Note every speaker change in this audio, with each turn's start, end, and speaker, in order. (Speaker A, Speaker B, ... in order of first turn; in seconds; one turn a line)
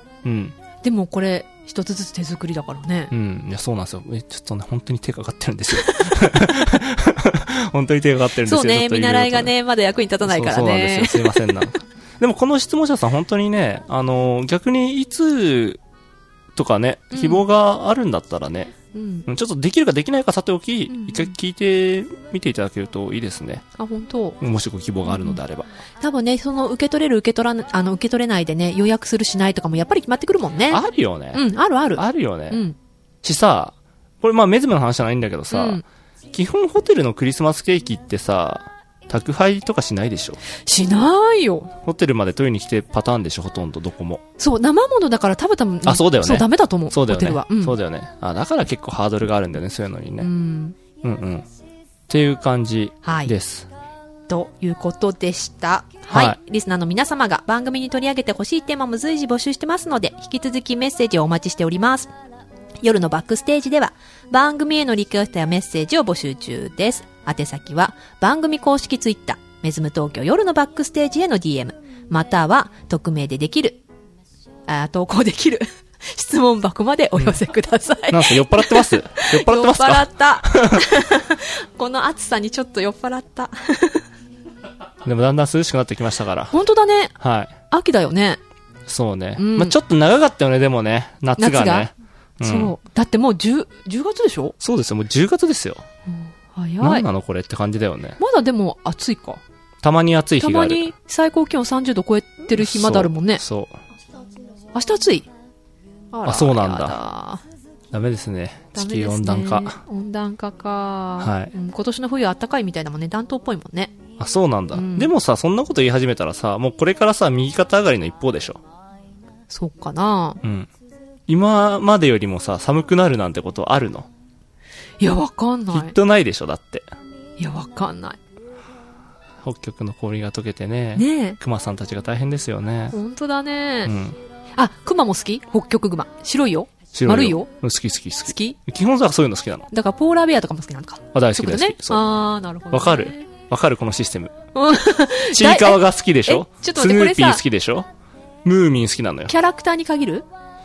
Speaker A: 0.2-0.6
Speaker B: 0.8-3.1
Speaker A: 3.1-9.5
Speaker B: 5.8-6.2
Speaker B: 8.4-11.6
Speaker A: 10.2-15.8
Speaker A: 16.6-18.7
Speaker B: 17.1-17.4
Speaker B: 18.9-19.3
Speaker A: 19.3-23.6
Speaker B: 20.9-21.3
Speaker B: 23.8-24.4
Speaker A: 24.4-25.7
Speaker B: 25.1-25.4
Speaker B: 26.0-32.8
Speaker A: 30.7-32.6
Speaker A: 33.2-40.4
Speaker B: 35.5-35.8
Speaker B: 40.7-41.7
Speaker A: 41.8-44.2
Speaker B: 44.4-47.8
Speaker A: 45.9-50.3
Speaker B: 50.2-50.8
Speaker A: 51.0-51.5
Speaker A: 52.1-53.7
Speaker B: 53.0-53.3
Speaker B: 54.3-62.1
Speaker A: 56.1-56.4
Speaker B: 62.8-73.8
Speaker B: 74.7-84.0
Speaker A: 78.1-80.8
Speaker A: 85.0-86.5
Speaker B: 86.5-87.1
Speaker A: 87.2-87.5
Speaker B: 87.7-88.4
Speaker A: 88.9-92.8
Speaker B: 89.4-89.8
Speaker B: 91.4-91.9
Speaker B: 92.4-94.6
Speaker A: 94.6-95.8
Speaker B: 96.1-97.1
Speaker A: 96.8-98.2
Speaker B: 98.2-99.4
Speaker A: 99.8-100.9
Speaker B: 100.4-103.4
Speaker A: 102.5-103.8
Speaker B: 104.8-105.3
Speaker B: 106.1-107.4
Speaker A: 106.2-107.0
Speaker A: 107.9-109.8
Speaker B: 108.8-114.0
Speaker A: 111.2-111.5
Speaker A: 114.2-118.6
Speaker B: 114.7-115.1
Speaker B: 119.5-120.4
Speaker A: 120.4-120.7
Speaker A: 121.3-124.1
Speaker B: 125.0-126.0
Speaker A: 125.7-126.9
Speaker B: 127.4-128.2
Speaker A: 129.4-133.0
Speaker B: 131.0-131.4
Speaker B: 132.9-133.9
Speaker A: 133.9-134.2
Speaker B: 134.6-137.5
Speaker A: 136.9-139.7
Speaker B: 138.3-138.6
Speaker B: 139.7-143.3
Speaker A: 141.1-142.1
Speaker A: 142.7-144.3
Speaker B: 144.5-147.4
Speaker A: 145.3-147.9
Speaker A: 148.4-149.3
Speaker B: 149.3-150.3